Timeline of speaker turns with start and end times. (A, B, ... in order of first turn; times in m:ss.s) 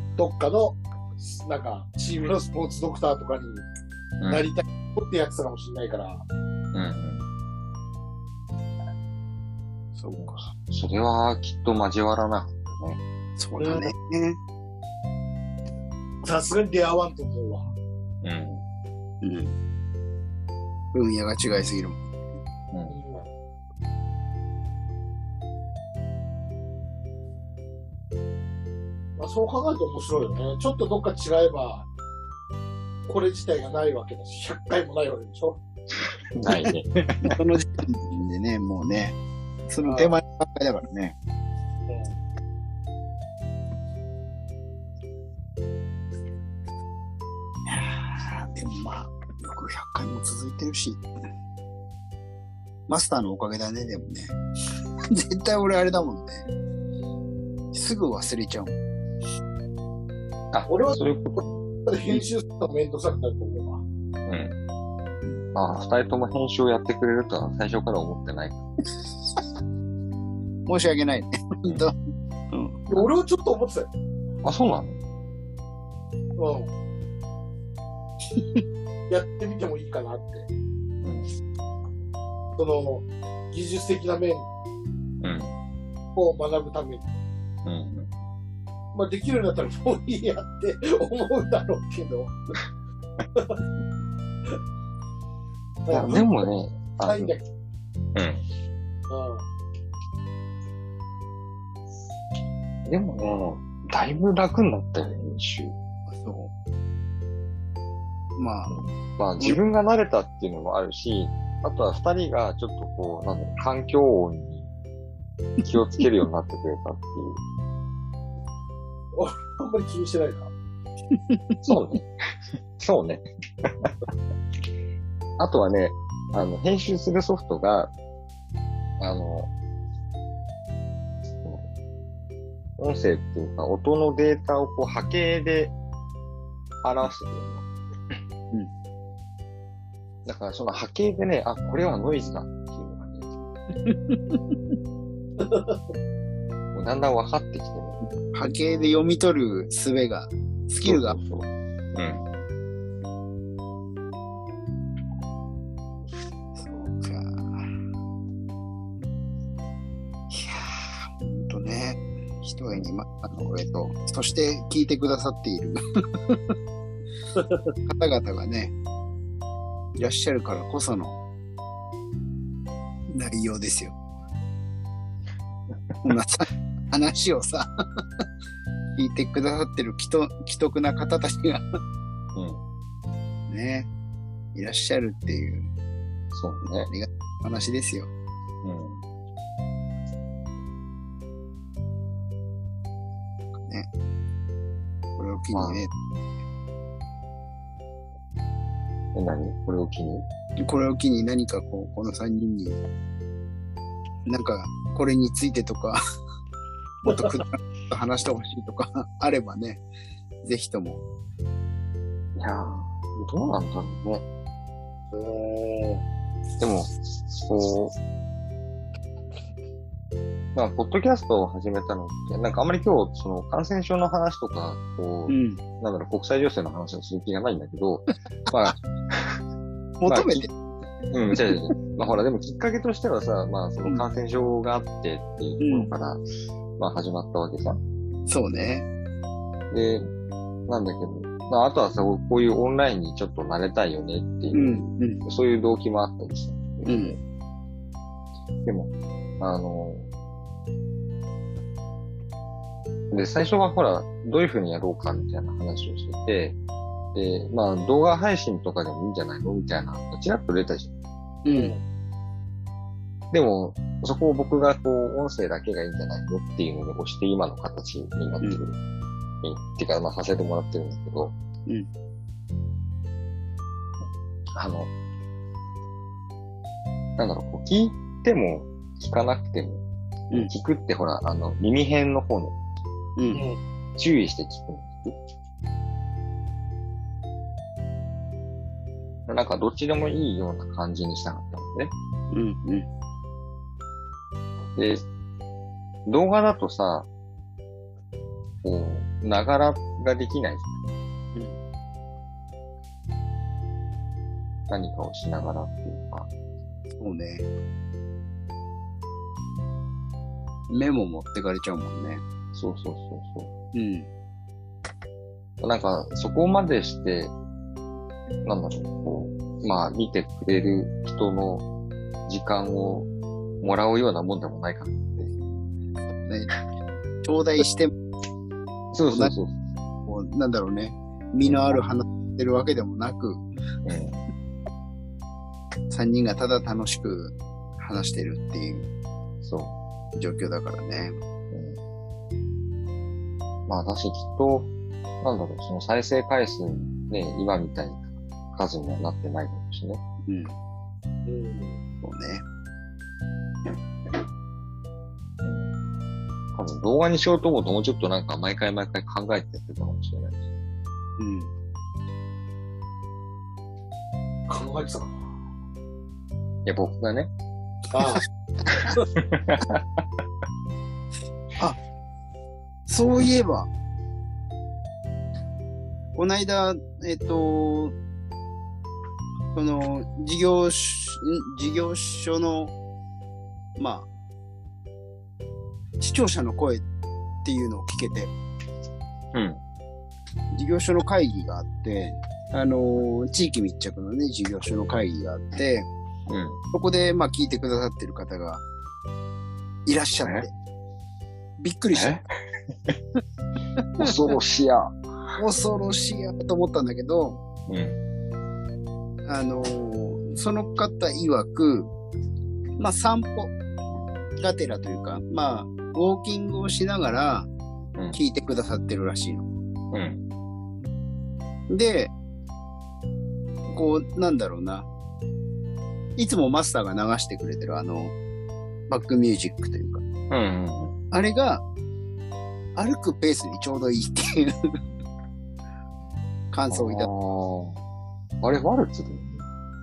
0:00.2-0:03.7 A
0:04.2-0:04.5 B
0:04.3-0:06.2 A
0:06.7-0:07.2 B
0:10.0-0:10.5 C
0:10.2-0:13.0 B
0:13.4-0:14.4 C
0:13.6-0:13.9 A
0:16.2-0:17.7 A
0:18.2-0:18.6 B
0:19.2-0:19.6 C
0:20.9-0:22.0 C
0:22.9-0:23.2 A
0:29.2-0:31.9 A
0:33.1-0:35.6 A
0:36.4-0:37.4 B
0:37.2-0:39.2 C
0:39.7-0:41.2 C
0:39.8-0:40.2 A
0:41.9-0:42.1 A
0:47.7-0:51.0 C
0:52.9-0:54.4 C
0:55.1-0:56.5 C
0:57.7-0:58.8 C
1:00.5-1:01.6 B
1:00.7-1:01.0 A
1:01.9-1:03.8 A
1:04.3-1:04.6 B
1:05.5-1:08.6 B
1:10.7-1:12.0 C
1:12.5-1:13.0 C
1:12.9-1:13.9 A
1:14.4-1:15.0 B
1:16.4-1:16.7 A
1:19.1-1:20.5 A
1:21.0-1:21.3 B
1:22.6-1:24.5 A
1:25.2-1:25.5 B
1:26.2-1:27.0 A
1:27.6-1:28.1 B
1:28.9-1:32.4 A
1:35.9-1:36.3 A
1:35.9-1:37.4 B
1:37.1-1:37.4 A
1:38.2-1:38.4 B
1:39.1-1:39.4 A
1:42.9-1:45.8 B
1:46.1-1:46.5 C
1:48.4-1:48.8 C
1:48.7-1:54.7 B
1:55.6-1:57.4 B
1:59.1-2:00.5 A
2:01.1-2:01.6 C
2:01.6-2:02.1 B
2:02.8-2:03.9 B
2:05.4-2:07.9 B
2:09.0-2:09.5 B
2:11.4-2:11.7 B
2:12.8-2:15.7 B
2:16.8-2:17.7 B
2:20.2-2:23.4 B
2:23.8-2:24.6 C
2:25.4-2:25.8 A
2:26.7-2:28.0 B
2:28.3-2:31.2 C
2:30.8-2:32.2 B
2:36.5-2:37.7 C
2:40.3-2:46.5 C
2:47.9-2:48.8 C
2:50.0-2:51.2 C
2:53.1-2:54.0 C
2:56.0-2:57.7 C
2:59.0-3:01.6 C
3:02.4-3:02.6 B
3:03.5-3:03.9 C
3:04.5-3:05.7 C
3:06.3-3:06.9 B
3:06.9-3:08.1 C
3:08.6-3:09.0 B
3:13.6-3:13.9 C
3:15.2-3:15.9 C
3:15.5-3:15.9 B
3:19.2-3:20.3 B
3:20.6-3:22.8 C
3:24.3-3:26.0 C
3:27.0-3:29.8 C
3:30.4-3:31.0 C
3:32.4-3:34.2 B
3:35.1-3:36.0 A
3:36.6-3:38.0 B
3:40.6-3:49.4 B
3:45.3-3:45.6 C
3:50.0-3:50.5 C
3:50.1-3:50.5 B
3:51.1-3:56.2 B
3:55.6-3:55.9 C
3:56.8-3:57.8 B
3:58.3-3:58.9 C
3:59.7-4:00.1 B
4:00.7-4:07.2 B
4:04.5-4:05.2 C
4:06.8-4:07.2 C
4:08.6-4:10.1 B
4:13.1-4:16.6 B
4:17.1-4:20.9 B
4:21.4-4:21.8 C
4:21.5-4:21.8 A
4:23.3-4:28.8 B
4:29.4-4:31.4 B
4:34.6-4:34.9 B
4:37.2-4:39.8 B
4:40.4-4:42.6 B
4:43.2-4:43.4 C
4:43.3-4:43.6 A
4:44.0-4:45.2 B
4:49.3-4:51.9 B
4:52.3-4:52.9 C
4:54.8-4:55.0 B
4:56.1-4:57.1 B
4:58.6-5:00.8 B
5:04.7-5:06.3 B
5:06.9-5:07.5 C
5:10.7-5:12.2 C
5:12.6-5:13.5 B
5:13.7-5:14.1 C
5:15.6-5:17.3 B
5:18.4-5:21.7 B
5:22.3-5:23.1 B
5:23.6-5:25.3 B
5:26.1-5:26.5 C
5:27.2-5:27.9 C
5:28.9-5:29.6 B
5:30.1-5:33.4 C
5:31.4-5:31.8 B
5:33.8-5:34.2 B
5:35.9-5:38.9 C
5:39.4-5:39.8 B
5:40.2-5:41.2 C
5:41.5-5:41.8 B
5:43.7-5:44.7 B
5:45.2-5:50.0 B
5:50.3-5:50.5 C
5:51.3-5:51.8 A
5:52.0-5:52.4 C
5:55.4-5:55.7 B
5:56.5-6:00.4 B
6:01.2-6:01.5 C
6:04.5-6:05.2 A
6:06.6-6:07.3 B
6:07.9-6:08.2 A
6:08.7-6:09.8 B
6:12.9-6:13.7 C
6:16.2-6:18.0 C
6:19.5-6:22.7 C
6:23.8-6:24.1 C
6:26.0-6:26.8 C
6:27.4-6:28.3 C
6:29.3-6:29.6 B
6:30.5-6:35.9 C
6:36.3-6:36.6 B
6:36.7-6:38.6 C
6:39.9-6:40.5 C
6:41.6-6:42.2 C
6:41.9-6:42.2 B
6:44.0-6:45.0 B
6:44.0-6:44.3 C
6:45.4-6:47.4 C
6:47.7-6:48.0 B
6:49.2-6:51.9 C
6:52.8-6:53.5 C
6:54.4-6:57.5 C
6:58.1-6:59.5 C
6:59.9-7:00.2 B
7:01.7-7:02.1 C
7:03.7-7:04.9 C
7:06.2-7:08.1 C
7:08.9-7:10.0 C
7:10.3-7:11.0 B
7:11.1-7:11.6 C
7:12.8-7:14.6 C
7:16.5-7:17.1 C
7:16.7-7:17.8 B
7:18.4-7:19.5 B